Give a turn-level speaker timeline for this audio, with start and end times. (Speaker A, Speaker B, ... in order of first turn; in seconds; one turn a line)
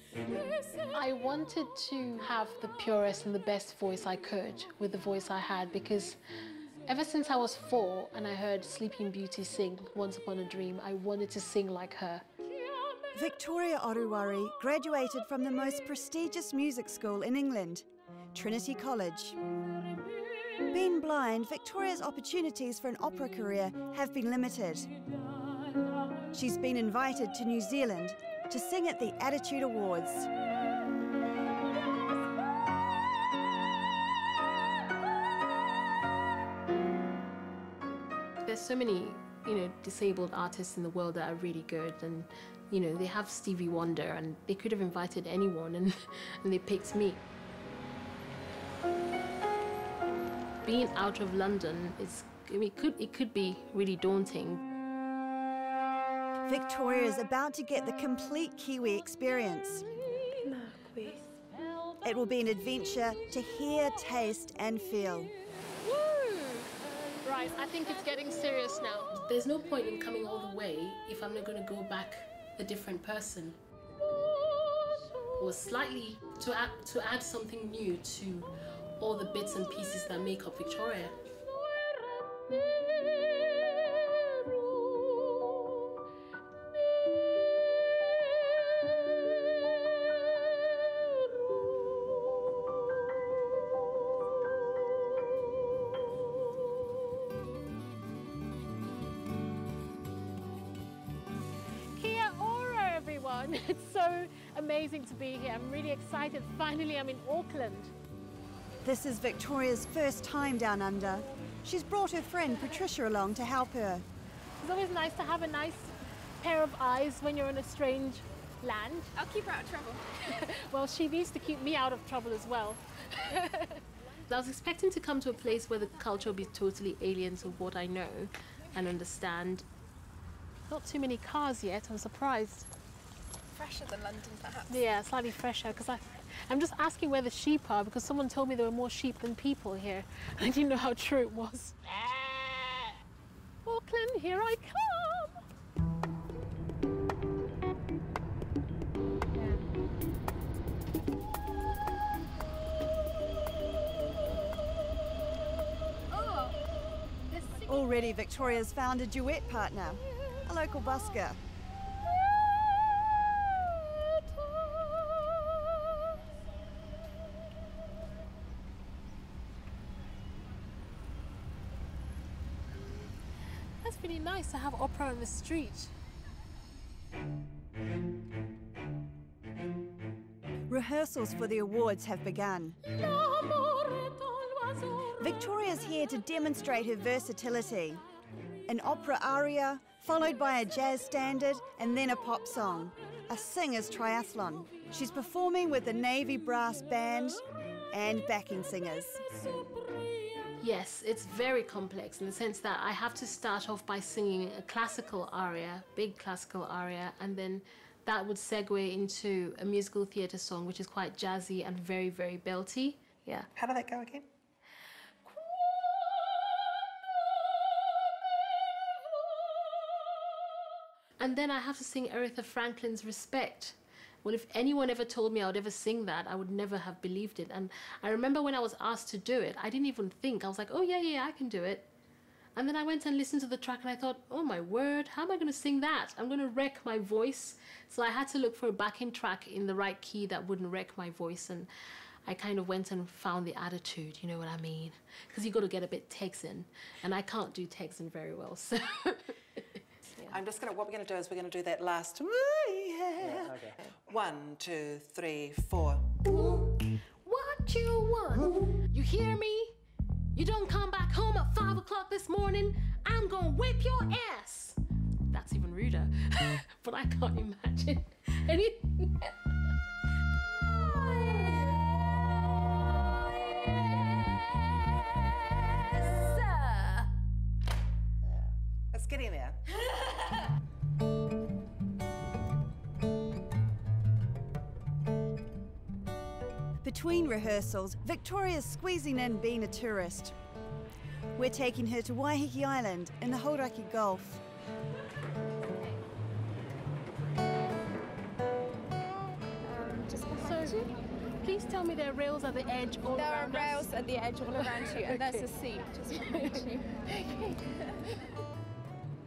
Speaker A: 0.3-6.2
Speaker A: 6.9-12.3
Speaker B: 13.1-19.4
Speaker B: 20.7-24.9
Speaker B: 26.3-30.3
Speaker A: 38.5-47.2
Speaker A: 50.6-54.6
Speaker B: 56.5-59.9
Speaker C: 60.4-61.2
Speaker B: 62.0-65.3
Speaker A: 65.7-66.7
Speaker A: 67.2-73.6
Speaker A: 75.3-81.2
Speaker A: 101.9-107.9
Speaker B: 108.8-114.0
Speaker A: 114.6-119.1
Speaker C: 119.2-120.0
Speaker A: 120.3-129.7
Speaker A: 130.7-132.7
Speaker C: 133.5-134.8
Speaker A: 134.7-143.0
Speaker A: 143.7-145.4
Speaker C: 149.3-149.6
Speaker A: 156.1-156.6
Speaker A: 157.3-157.9
Speaker B: 157.7-161.4
Speaker A: 173.8-175.9
Speaker B: 180.7-182.8
Speaker A: 182.9-185.2
Speaker B: 185.2-188.0
Speaker B: 188.7-199.3
Speaker A: 200.6-213.5
Speaker D: 213.6-214.3
Speaker A: 221.2-231.9
Speaker A: 232.6-241.7
Speaker A: 242.2-249.6
Speaker D: 250.3-256.2
Speaker A: 256.2-256.7
Speaker A: 257.2-259.8
Speaker A: 260.4-264.8
Speaker A: 265.3-269.3
Speaker A: 270.7-271.8
Speaker A: 273.8-275.1
Speaker A: 275.9-277.1
Speaker D: 278.3-279.6
Speaker B: 286.8-290.3
Speaker B: 291.4-294.4
Speaker C: 299.6-300.9
Speaker A: 300.4-300.9
Speaker A: 301.4-303.9
Speaker C: 303.1-307.0
Speaker A: 305.1-305.4
Speaker A: 306.3-306.6
Speaker A: 307.2-307.6